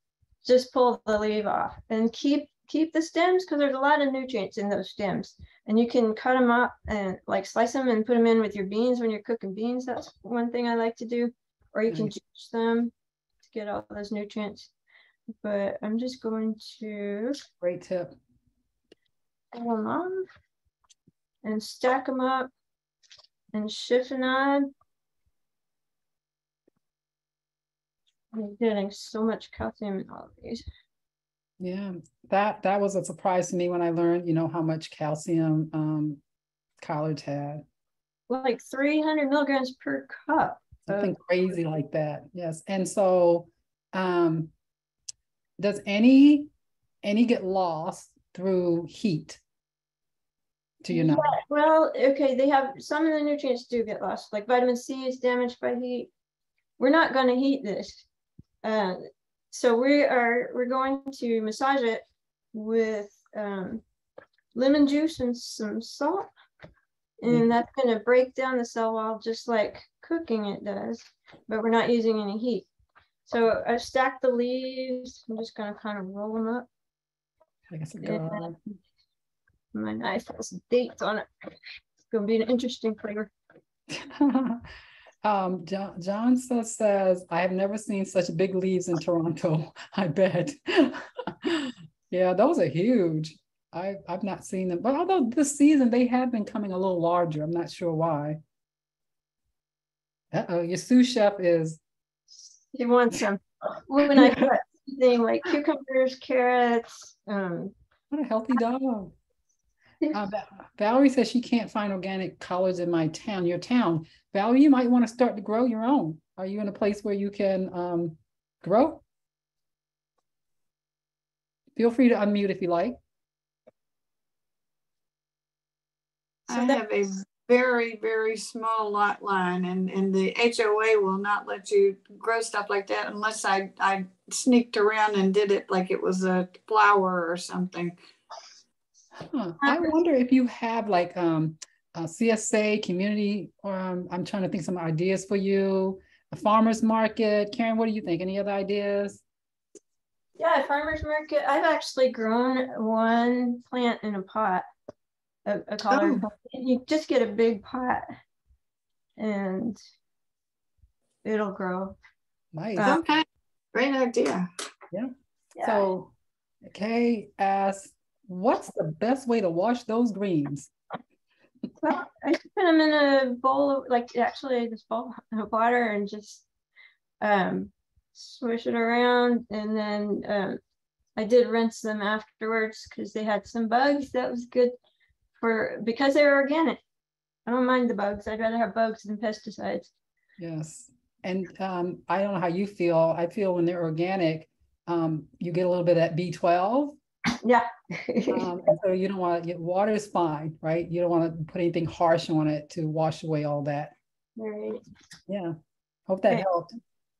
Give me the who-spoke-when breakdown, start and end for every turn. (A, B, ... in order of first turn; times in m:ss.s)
0:00.4-0:12.9 A
0:13.4-0:14.7 A
0:15.4-0:17.4 A
0:17.6-0:18.1 B
0:19.5-0:20.3 A
0:21.4-0:22.5 A
0:23.5-0:24.7 A
0:28.3-0:30.6 A
0:31.6-0:36.2 B
0:36.8-0:37.6 B
0:38.3-0:41.1 A
0:40.9-0:44.5 B
0:45.6-0:46.5 B
0:47.0-0:49.4 B
0:50.8-0:51.3 B
0:50.9-0:56.1 A
0:56.8-0:58.0 A
0:58.6-0:59.0 A
0:59.5-1:03.8 A
1:04.5-1:06.3 A
1:07.2-1:12.7 A
1:13.3-1:16.7 A
1:17.7-1:18.6 B
1:18.0-1:18.5 A
1:19.7-1:21.3 A
1:22.1-1:23.3 A
1:23.9-1:24.6 B
1:25.2-1:38.4 B
1:40.3-1:41.8 B
1:42.7-1:47.7 A
1:44.1-1:44.5 B
1:48.1-1:49.1 B
1:50.1-1:59.0 B
2:01.8-2:03.0 B
2:06.5-2:18.0 C
2:06.5-2:06.8 A
2:19.3-2:29.2 B
2:19.6-2:19.9 A
2:30.4-2:34.6 A
2:35.4-2:38.1 A
2:35.9-2:36.3 B
2:39.2-2:39.8 A
2:41.2-2:42.0 A
2:42.5-2:43.0 B
2:42.8-2:43.0 A
2:42.8-2:44.4 C
2:44.9-2:46.1 B
2:45.6-2:45.9 A
2:46.6-2:50.7 B
2:51.8-2:56.4 A
2:57.2-3:00.6 A
3:01.2-3:04.7 A
3:05.4-3:06.8 A
3:07.4-3:09.9 A
3:10.4-3:16.9 B
3:17.4-3:18.5 A
3:18.3-3:23.9 B
3:24.4-3:24.8 A
3:25.3-3:25.5 B
3:26.1-3:26.7 B